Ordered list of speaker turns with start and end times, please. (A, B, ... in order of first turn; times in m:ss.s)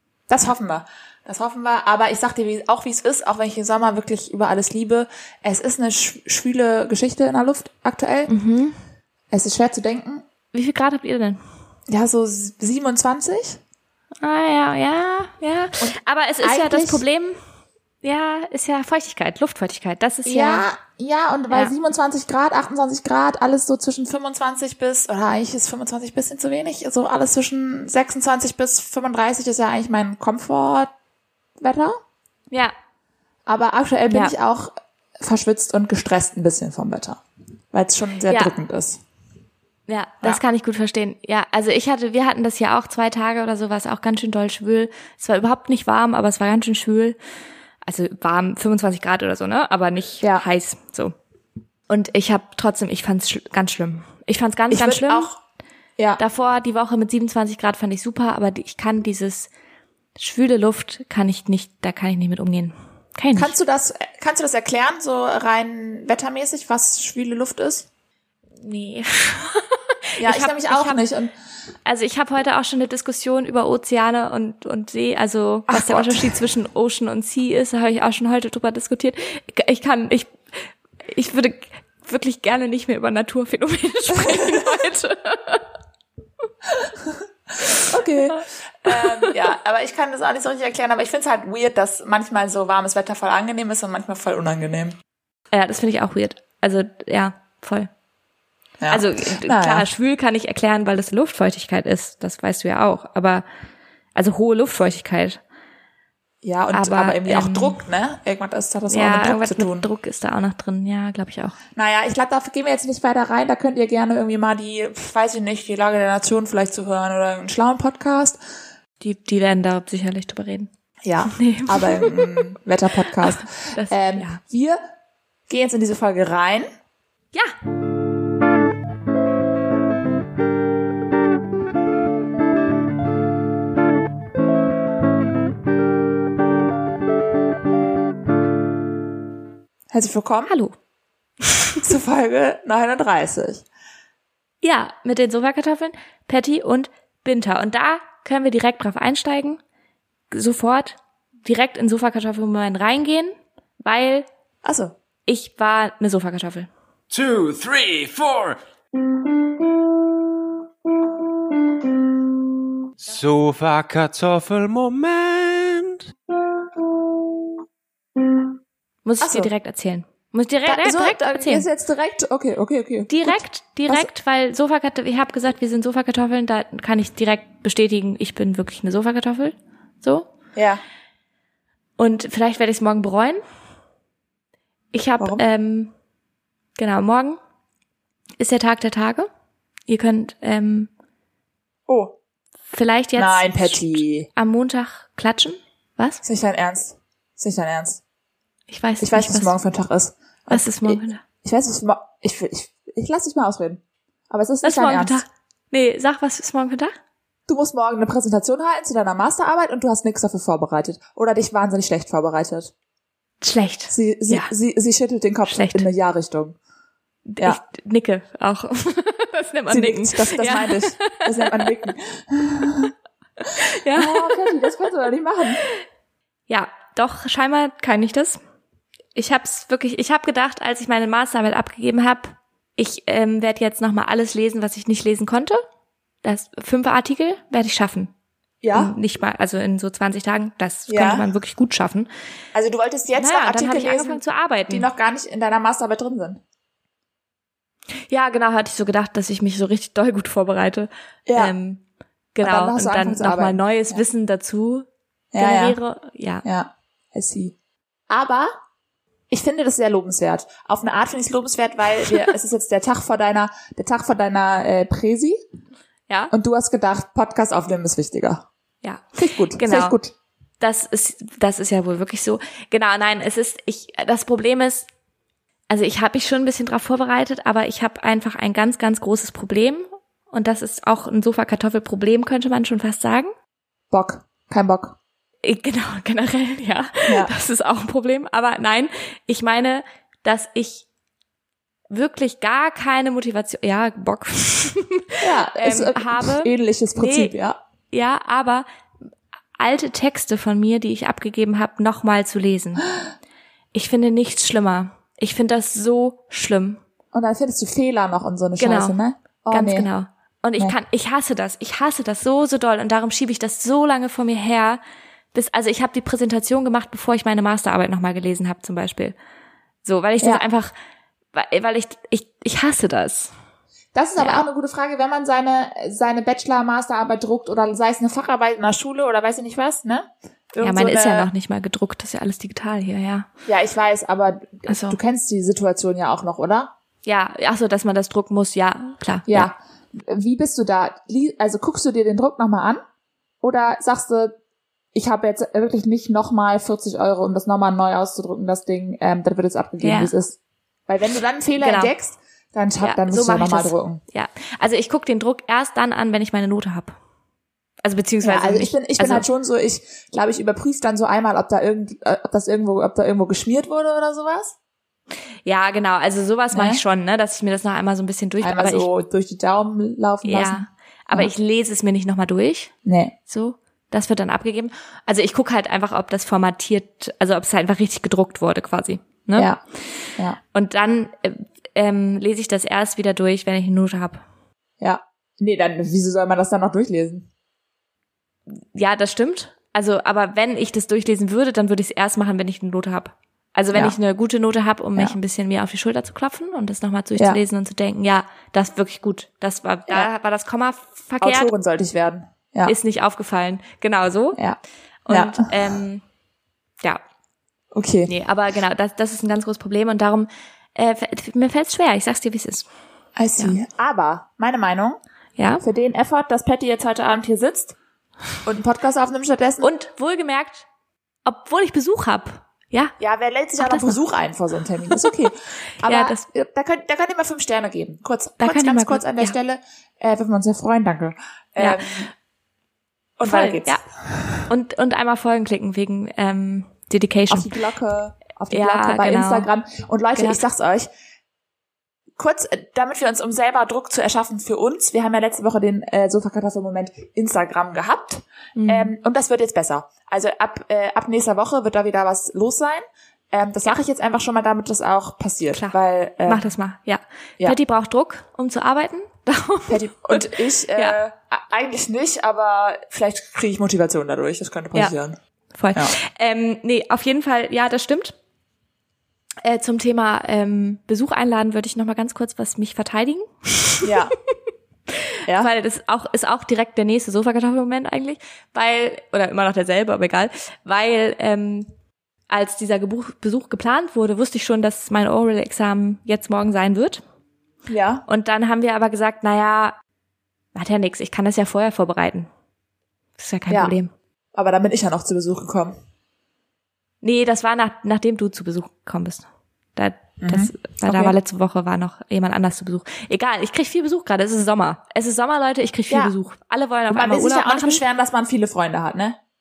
0:00.3-0:08.3 A
0:08.3-0:08.8 B
0:09.3-0:10.2 A
0:10.5-0:11.4 B
0:11.9-0:13.6 A
0:14.2-0:17.4 B
0:15.8-0:17.0 A
0:18.0-0:20.6 B
0:20.2-0:30.9 A
0:31.6-0:32.0 A
0:33.4-0:37.2 A
0:37.7-0:39.0 A
0:39.9-0:47.2 B
0:47.8-0:51.1 B
0:51.9-0:55.3 B
0:54.7-0:55.4 A
0:56.2-0:59.5 B
1:00.2-1:03.5 B
1:03.3-1:07.9 A
1:08.6-1:11.0 B
1:10.2-1:11.3 A
1:11.8-1:25.7 B
1:15.7-1:16.4 A
1:24.2-1:24.5 A
1:26.7-1:35.0 A
1:27.6-1:29.4 B
1:35.5-1:37.9 B
1:38.8-1:39.8 A
1:38.9-1:43.4 B
1:44.1-1:45.4 B
1:46.4-1:49.8 A
1:46.7-1:47.8 B
1:48.9-1:51.6 B
1:51.7-1:58.4 A
1:59.0-2:00.7 B
2:01.0-2:04.8 A
2:01.3-2:02.4 B
2:03.2-2:04.4 B
2:05.5-2:06.7 A
2:19.9-2:20.5 A
2:20.5-2:20.7 B
2:21.4-2:21.8 B
2:21.8-2:23.6 A
2:24.6-2:29.6 B
2:30.3-2:34.3 B
2:34.6-2:34.9 A
2:35.2-2:36.7 B
2:37.1-2:38.6 C
2:43.0-2:46.1 C
2:49.0-2:51.6 B
2:49.2-2:49.5 A
2:50.6-2:54.1 A
2:53.1-3:00.3 B
3:00.6-3:00.8 A
3:02.0-3:03.4 B
3:04.9-3:05.9 B
3:05.2-3:05.4 A
3:06.8-3:07.4 B
3:08.4-3:09.3 B
3:09.9-3:10.9 B
3:11.9-3:12.2 A
3:12.7-3:16.2 B
3:13.2-3:14.3 A
3:16.2-3:18.0 A
3:18.7-3:19.5 B
3:19.0-3:25.2 A
3:20.5-3:21.2 B
3:24.6-3:26.9 B
3:27.5-3:32.7 A
3:33.4-3:34.5 B
3:33.9-3:36.6 A
3:35.5-3:35.8 B
3:37.3-3:41.7 B
3:39.7-3:42.9 A
3:43.4-3:45.6 A
3:43.6-3:44.7 B
3:46.5-3:48.4 B
3:49.1-3:55.6 B
3:56.2-3:58.1 B
3:58.6-3:58.9 A
3:58.7-4:02.1 B
4:00.9-4:01.2 A
4:02.5-4:06.4 A
4:03.2-4:04.8 B
4:08.1-4:11.8 B
4:11.3-4:11.5 A
4:12.3-4:16.4 B
4:12.4-4:14.0 A
4:15.3-4:15.8 A
4:16.4-4:17.5 A
4:18.1-4:18.5 A
4:19.3-4:25.4 A
4:26.3-4:28.4 A
4:29.1-4:30.1 A
4:29.5-4:30.0 B
4:30.6-4:34.9 B
4:35.7-4:43.3 B
4:43.9-4:45.0 A
4:45.4-4:50.8 B
4:47.1-4:47.3 A
4:51.9-4:57.3 B
4:55.2-4:57.6 A
4:57.9-4:58.6 B
4:59.6-5:02.8 B
5:03.7-5:06.8 B
5:07.1-5:09.9 A
5:08.6-5:09.0 B
5:09.5-5:14.8 B
5:15.3-5:19.2 B
5:19.8-5:20.7 B
5:21.3-5:23.3 B
5:23.9-5:31.3 A
5:24.2-5:24.4 B
5:30.6-5:33.3 B
5:33.5-5:36.7 A
5:34.7-5:35.0 B
5:37.0-5:39.5 B
5:39.3-5:42.8 A
5:43.4-5:44.4 A
5:44.9-5:54.0 A
5:49.8-5:50.1 B
5:51.6-5:51.9 B
5:52.8-5:57.0 B
5:57.8-5:59.3 B
5:58.2-6:04.6 A
6:05.4-6:08.9 B
6:06.5-6:06.8 A
6:08.4-6:11.3 A
6:10.2-6:12.7 B
6:12.8-6:13.1 A
6:13.3-6:19.5 B
6:19.4-6:19.6 A
6:20.5-6:24.2 B
6:24.8-6:27.3 A
6:28.5-6:41.5 B
6:41.2-6:42.7 A
6:42.6-6:44.4 B
6:45.0-6:46.0 B
6:45.1-6:45.8 A
6:47.7-6:48.1 A
6:48.1-6:52.7 B
6:53.2-6:55.0 A
6:55.4-6:55.6 B
6:55.6-6:57.8 A
6:58.4-6:59.7 A
6:59.6-7:00.6 B
7:01.2-7:02.9 B
7:03.0-7:12.1 A
7:03.6-7:04.0 B
7:05.8-7:06.2 B
7:08.4-7:09.4 B
7:11.6-7:11.8 B
7:13.2-7:14.4 A
7:13.2-7:13.8 B
7:14.5-7:17.5 B
7:17.3-7:20.9 A
7:18.5-7:19.5 B
7:22.2-7:36.5 A
7:28.6-7:28.9 B
7:35.5-7:41.0 B
7:39.7-7:45.2 A
7:45.5-7:48.2 B
7:49.4-7:53.9 B
7:53.8-7:54.1 A
7:54.9-8:01.7 B
8:02.3-8:07.0 B
8:07.7-8:08.0 A
8:08.1-8:09.8 B
8:10.5-8:12.3 B
8:13.2-8:13.9 B
8:14.3-8:15.7 A
8:17.0-8:19.2 B
8:19.8-8:27.8 B
8:20.2-8:21.2 A
8:26.9-8:29.2 A